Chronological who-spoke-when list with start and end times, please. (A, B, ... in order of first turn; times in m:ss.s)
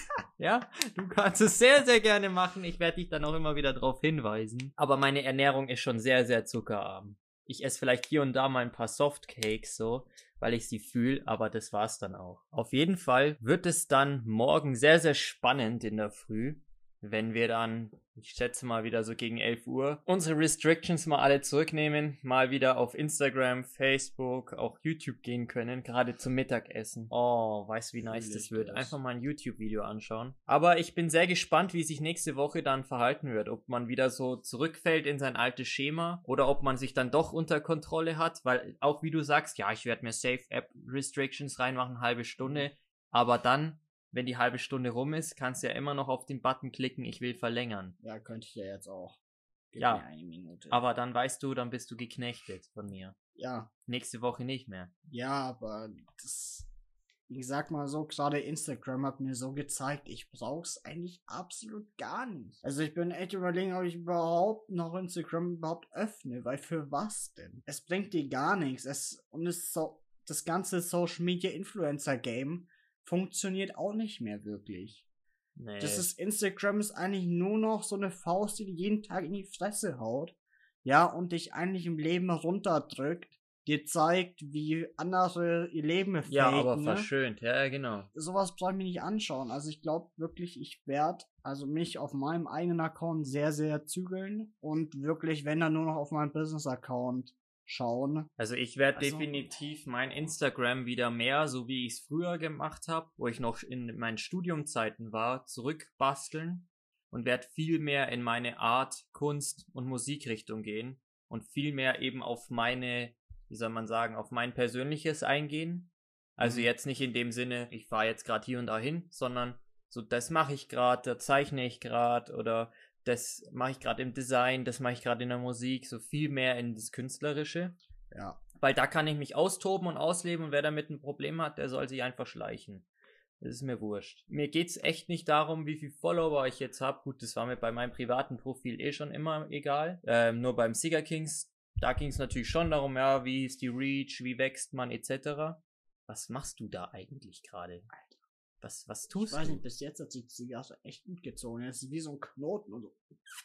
0:00.4-0:47.9 A
0:28.0-0:29.0 B
0:48.0-0:49.2 B
0:49.7-0:50.8 B
0:49.8-0:50.0 A
0:50.7-0:53.1 A
0:53.4-0:53.7 B
0:53.9-0:54.9 A
0:55.1-0:56.7 B
0:57.3-1:15.0 B
1:15.6-1:16.1 A
1:15.8-1:27.1 B
1:26.2-1:28.1 A
1:28.1-1:38.3 B
1:38.4-2:07.7 A
1:38.9-1:39.4 B
1:56.4-1:56.7 B
2:08.1-2:08.4 B
2:08.6-2:12.8 A
2:13.4-2:27.9 A
2:28.6-2:29.6 A
2:29.2-2:33.0 B